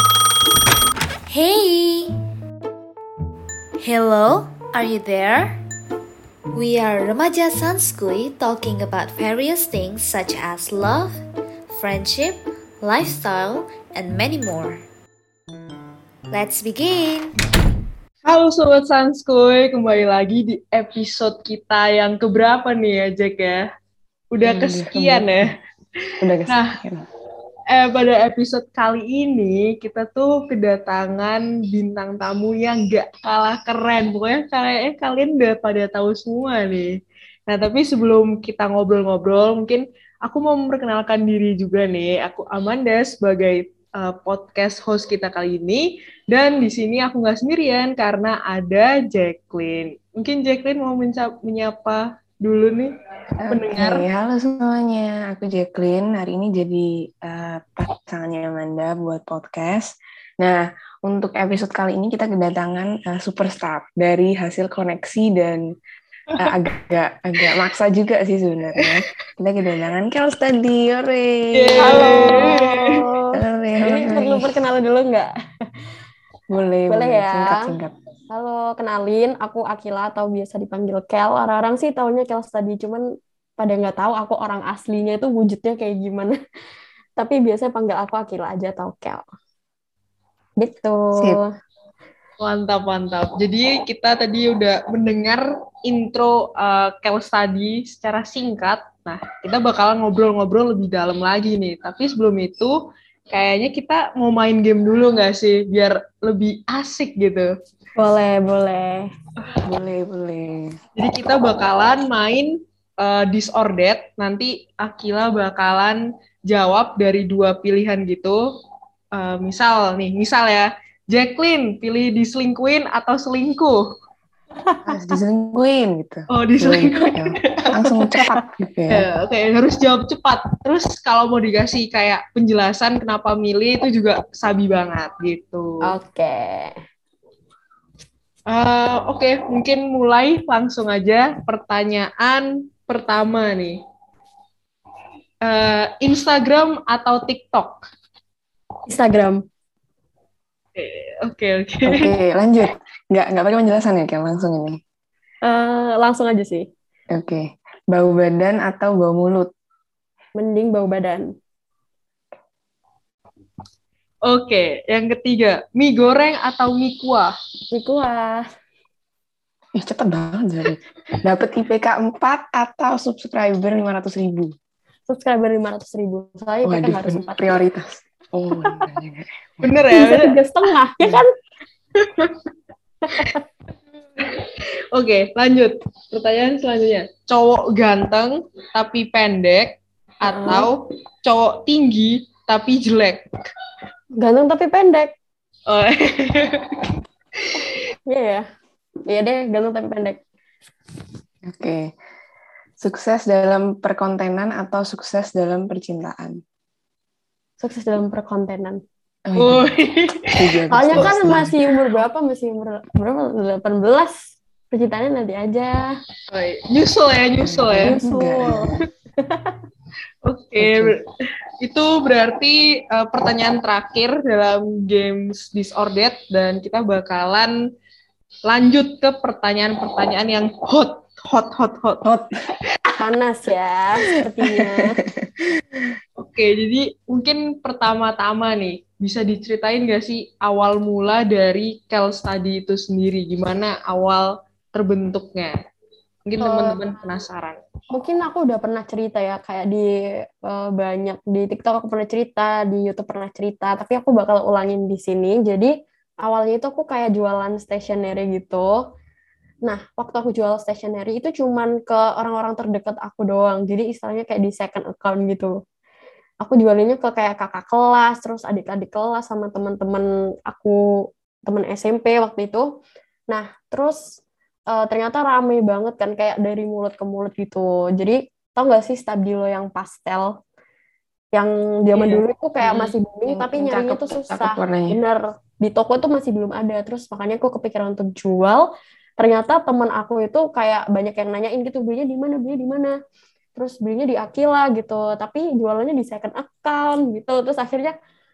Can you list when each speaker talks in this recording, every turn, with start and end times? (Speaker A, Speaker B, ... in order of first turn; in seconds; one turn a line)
Speaker A: 1.3-2.1
Speaker A: 3.8-5.6
Speaker A: 6.5-11.2
Speaker A: 11.7-14.8
Speaker A: 16.3-17.4
Speaker B: 18.2-23.7
Speaker B: 24.3-25.5
Speaker C: 24.4-25.4
Speaker C: 26.2-27.0
Speaker B: 26.4-26.8
Speaker B: 27.7-37.0
Speaker B: 37.5-52.9
Speaker C: 53.4-65.6
Speaker B: 53.5-54.1
Speaker C: 66.4-72.6
Speaker B: 71.5-73.0
Speaker D: 71.8-75.3
Speaker C: 73.3-74.5
Speaker C: 76.5-77.9
Speaker D: 76.9-77.7
Speaker D: 78.3-83.0
Speaker D: 83.6-86.3
Speaker D: 87.2-89.2
Speaker D: 90.6-91.5
Speaker B: 92.4-102.8
Speaker B: 103.3-107.5
Speaker D: 108.0-109.1
Speaker C: 109.6-110.8
Speaker B: 111.0-118.4
Speaker B: 119.1-123.8
Speaker C: 124.8-129.1
Speaker B: 126.3-127.9
Speaker B: 128.9-135.8
Speaker D: 135.8-136.7
Speaker B: 138.5-143.8
Speaker B: 145.4-147.8
Speaker D: 148.9-149.4
Speaker B: 150.8-152.1
Speaker C: 151.8-154.8
Speaker D: 155.4-156.7
Speaker C: 157.1-159.5
Speaker D: 160.3-161.3
Speaker B: 164.2-167.3
Speaker D: 167.7-168.5
Speaker C: 169.8-174.5
Speaker D: 175.1-177.5
Speaker C: 176.6-179.7
Speaker B: 179.6-180.4
Speaker D: 179.9-181.3
Speaker B: 182.0-182.4
Speaker D: 183.1-183.4
Speaker B: 184.2-193.2
Speaker D: 190.3-190.7
Speaker D: 194.2-195.1
Speaker B: 195.7-196.9
Speaker D: 198.1-198.4
Speaker D: 199.1-200.2
Speaker C: 201.4-201.9
Speaker C: 202.8-206.4
Speaker D: 207.6-208.8
Speaker C: 209.2-209.6
Speaker B: 209.3-211.1
Speaker C: 210.3-211.5
Speaker D: 210.7-215.9
Speaker B: 216.3-218.0
Speaker C: 217.4-218.8
Speaker D: 217.8-218.7
Speaker B: 220.2-221.1
Speaker C: 220.6-220.9
Speaker B: 221.6-227.6
Speaker B: 228.4-232.0
Speaker C: 232.0-232.3
Speaker D: 233.0-235.0
Speaker C: 234.7-235.3
Speaker B: 236.2-245.5
Speaker B: 246.2-247.6
Speaker D: 246.4-246.8
Speaker D: 247.9-258.8
Speaker D: 259.6-265.5
Speaker D: 266.4-272.7
Speaker D: 273.3-274.1
Speaker D: 274.7-280.4
Speaker D: 281.3-288.7
Speaker B: 281.9-282.9
Speaker C: 283.3-285.0
Speaker D: 289.2-292.9
Speaker D: 293.6-297.9